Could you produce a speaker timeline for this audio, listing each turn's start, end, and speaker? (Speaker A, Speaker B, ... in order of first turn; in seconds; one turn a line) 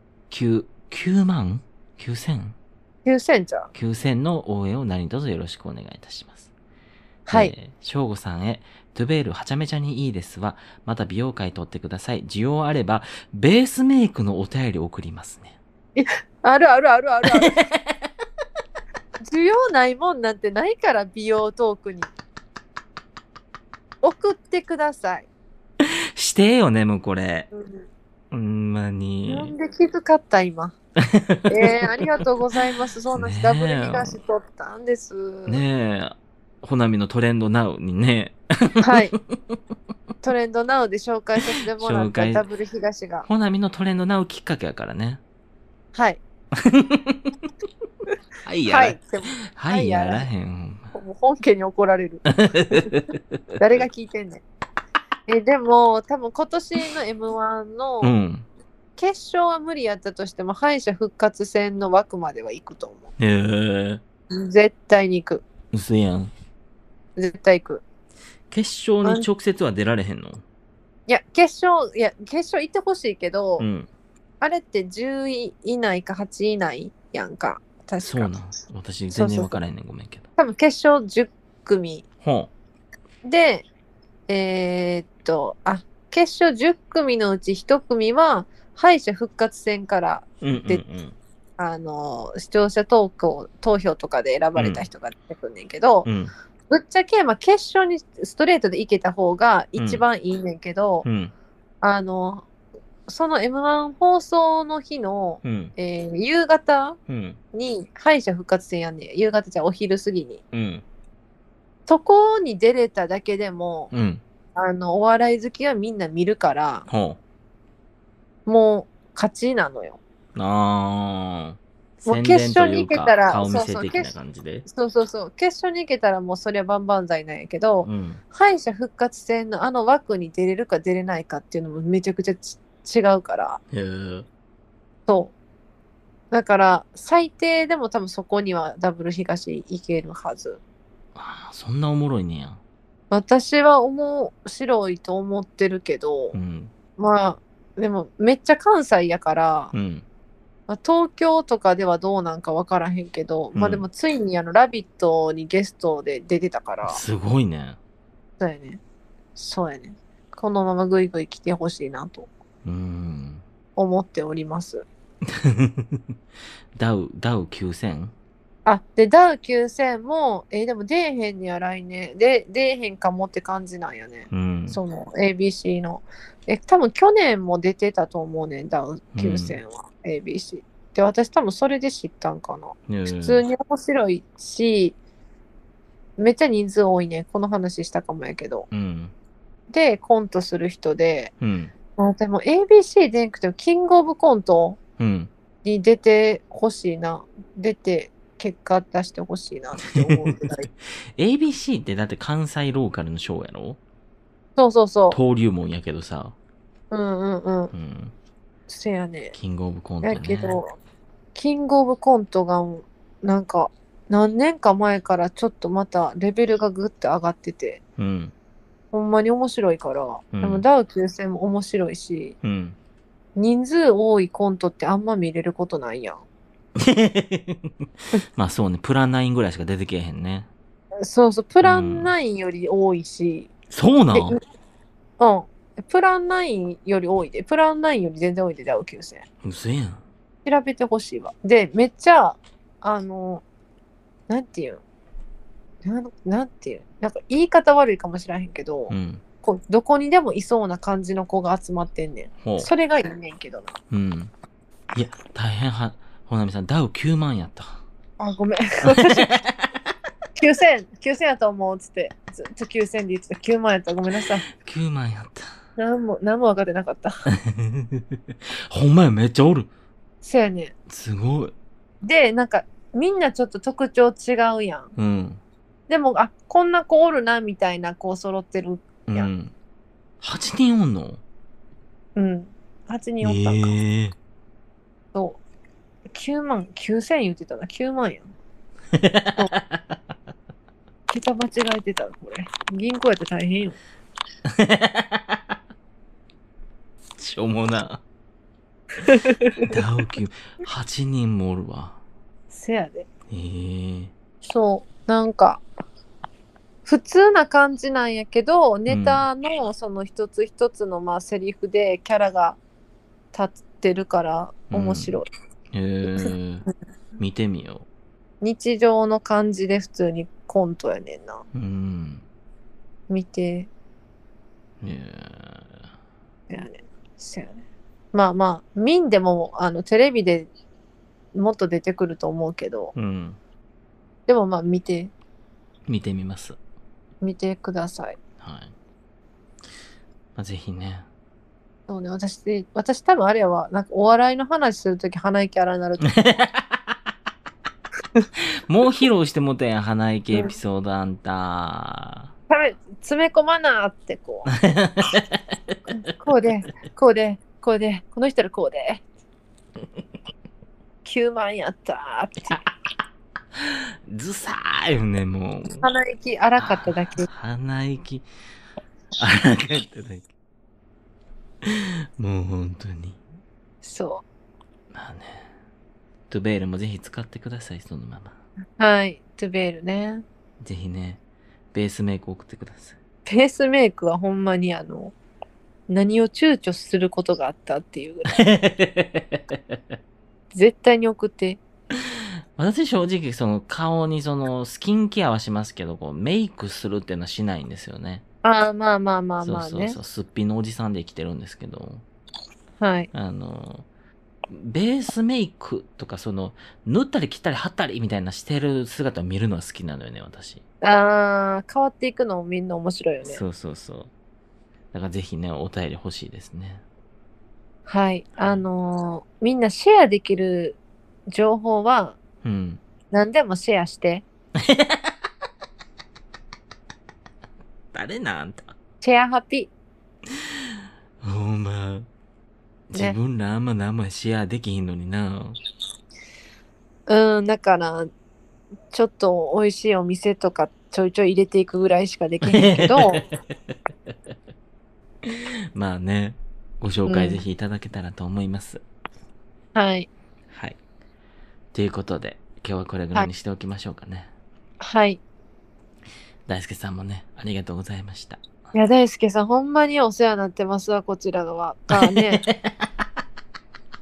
Speaker A: 0.3-2.5
Speaker B: 3.0-3.7
Speaker A: 3.7-6.5
Speaker B: 7.3-7.5
Speaker A: 7.3-15.6
Speaker B: 15.9-17.6
Speaker A: 17.3-17.9
Speaker B: 19.2-22.1
Speaker B: 24.0-25.3
Speaker A: 25.8-27.5
Speaker B: 27.5-27.9
Speaker A: 28.3-29.5
Speaker B: 29.3-30.8
Speaker A: 31.0-31.8
Speaker B: 31.5-35.6
Speaker A: 33.1-34.2
Speaker A: 35.5-39.6
Speaker B: 38.8-39.1
Speaker B: 40.2-43.3
Speaker A: 41.8-42.4
Speaker A: 43.2-45.2
Speaker B: 45.9-46.2
Speaker A: 46.5-47.3
Speaker A: 48.4-49.0
Speaker B: 48.7-50.3
Speaker A: 49.5-50.9
Speaker B: 50.9-52.9
Speaker A: 52.2-53.8
Speaker B: 53.6-54.4
Speaker B: 55.3-58.1
Speaker A: 58.0-58.5
Speaker B: 59.0-63.1
Speaker A: 63.2-64.0
Speaker B: 64.3-65.4
Speaker A: 65.7-66.3
Speaker B: 67.2-67.8
Speaker A: 68.5-70.4
Speaker B: 71.1-73.7
Speaker A: 73.6-73.9
Speaker B: 74.4-78.3
Speaker A: 78.0-80.2
Speaker B: 79.1-79.6
Speaker B: 80.4-82.0
Speaker A: 82.2-82.5
Speaker B: 83.2-83.7
Speaker B: 84.3-90.8
Speaker A: 90.4-91.2
Speaker B: 91.6-96.1
Speaker A: 94.5-94.8
Speaker A: 96.0-96.3
Speaker B: 96.7-101.0
Speaker A: 99.8-100.0
Speaker A: 101.0-101.3
Speaker B: 101.8-102.5
Speaker B: 103.1-107.0
Speaker A: 105.4-105.7
Speaker A: 107.1-107.4
Speaker B: 107.5-110.4
Speaker A: 110.5-110.8
Speaker B: 111.9-113.9
Speaker A: 113.9-114.2
Speaker B: 114.5-116.9
Speaker A: 116.9-117.2
Speaker B: 118.5-120.0
Speaker A: 120.3-124.7
Speaker B: 122.0-124.1
Speaker B: 124.7-133.6
Speaker A: 127.8-128.2
Speaker A: 133.7-134.3
Speaker B: 135.1-135.3
Speaker B: 136.3-140.6
Speaker A: 141.1-142.6
Speaker B: 143.1-146.3
Speaker A: 146.3-146.7
Speaker B: 147.0-149.7
Speaker A: 149.7-150.0
Speaker B: 150.7-157.0
Speaker A: 153.5-153.8
Speaker A: 156.8-157.8
Speaker B: 158.4-158.8
Speaker B: 159.3-162.3
Speaker A: 162.6-163.4
Speaker B: 163.8-164.8
Speaker A: 165.3-166.1
Speaker A: 166.7-168.1
Speaker B: 168.7-185.0
Speaker A: 174.3-174.8
Speaker A: 179.1-179.6
Speaker A: 182.9-183.4
Speaker B: 186.2-188.7
Speaker A: 188.7-189.1
Speaker B: 189.7-191.3
Speaker A: 191.4-191.7
Speaker B: 192.0-194.8
Speaker A: 195.0-195.3
Speaker B: 195.6-200.7
Speaker A: 199.8-203.8
Speaker B: 204.6-205.2
Speaker A: 205.1-206.3
Speaker B: 206.9-207.7
Speaker A: 207.7-208.1
Speaker B: 208.7-209.3
Speaker A: 209.3-210.6
Speaker B: 210.0-210.7
Speaker B: 211.3-217.8
Speaker A: 218.0-218.3
Speaker B: 218.9-222.3
Speaker A: 220.3-220.6
Speaker A: 222.4-222.8
Speaker B: 223.3-226.2
Speaker A: 226.8-230.5
Speaker B: 231.0-233.5
Speaker A: 231.6-232.1
Speaker A: 233.7-234.4
Speaker B: 234.1-234.4
Speaker B: 235.2-239.2
Speaker A: 239.4-240.0
Speaker B: 240.4-243.4
Speaker B: 244.3-244.8
Speaker B: 245.8-253.8
Speaker A: 248.9-249.2
Speaker A: 252.4-252.7
Speaker A: 253.9-254.3
Speaker A: 254.9-257.8
Speaker B: 258.2-259.4
Speaker A: 258.8-259.7
Speaker B: 260.4-264.4
Speaker A: 264.5-265.5
Speaker B: 265.8-267.3
Speaker A: 267.3-269.7
Speaker B: 270.2-270.7
Speaker A: 270.9-271.5
Speaker B: 272.0-274.9
Speaker A: 274.9-275.4
Speaker B: 275.9-279.3
Speaker A: 279.1-279.5
Speaker A: 280.2-281.2
Speaker B: 282.1-283.7
Speaker A: 283.2-284.1
Speaker B: 285.1-285.4
Speaker B: 286.1-288.3
Speaker A: 288.9-290.0
Speaker B: 291.1-293.8
Speaker A: 294.4-295.6
Speaker A: 297.2-298.0
Speaker B: 299.0-299.7
Speaker A: 299.6-302.0
Speaker B: 302.5-303.1
Speaker A: 303.3-304.1
Speaker B: 304.4-305.6
Speaker B: 306.8-312.6
Speaker A: 308.9-309.2
Speaker B: 313.3-315.3
Speaker A: 314.7-315.2
Speaker A: 315.7-316.7
Speaker A: 317.2-317.9
Speaker B: 318.4-321.4
Speaker A: 321.5-322.2
Speaker B: 323.1-323.7
Speaker A: 324.8-325.7
Speaker B: 326.5-330.5
Speaker B: 331.3-332.9
Speaker A: 332.9-333.4
Speaker B: 334.3-335.1
Speaker A: 335.9-336.6
Speaker B: 337.2-338.2
Speaker A: 338.4-338.7
Speaker A: 340.4-341.1
Speaker B: 341.9-346.1
Speaker A: 346.1-346.9
Speaker A: 348.6-352.3
Speaker B: 350.3-350.6
Speaker B: 352.5-354.5
Speaker A: 354.5-355.4
Speaker B: 355.9-359.0
Speaker B: 361.0-362.6
Speaker A: 363.5-365.9
Speaker B: 365.8-367.3
Speaker A: 366.6-368.3
Speaker A: 369.2-370.2
Speaker A: 371.6-373.2
Speaker B: 373.8-374.2
Speaker A: 374.9-375.5
Speaker A: 376.3-378.4
Speaker B: 378.8-380.2
Speaker A: 380.6-381.2
Speaker A: 381.7-383.0
Speaker B: 383.2-385.1
Speaker B: 385.9-388.4
Speaker A: 388.3-389.9
Speaker B: 390.5-391.6
Speaker A: 391.9-398.2
Speaker B: 398.4-400.0
Speaker A: 399.4-402.0
Speaker B: 402.8-403.1
Speaker A: 403.1-403.9
Speaker A: 404.5-410.6
Speaker B: 410.8-413.4
Speaker A: 413.2-414.1
Speaker A: 414.9-416.8
Speaker B: 417.9-420.8
Speaker B: 421.3-422.2
Speaker A: 422.4-422.8
Speaker B: 423.1-424.2
Speaker A: 424.6-425.2
Speaker A: 427.9-428.7
Speaker B: 429.0-429.7
Speaker A: 430.3-432.1
Speaker A: 432.9-435.6
Speaker B: 437.1-438.1
Speaker B: 438.9-443.3
Speaker A: 442.4-443.3
Speaker A: 445.2-448.8
Speaker B: 447.1-447.4
Speaker B: 449.7-450.1
Speaker A: 450.5-450.8
Speaker A: 451.7-454.3
Speaker B: 454.8-455.2
Speaker A: 456.5-458.4
Speaker B: 458.7-462.5
Speaker A: 461.9-462.9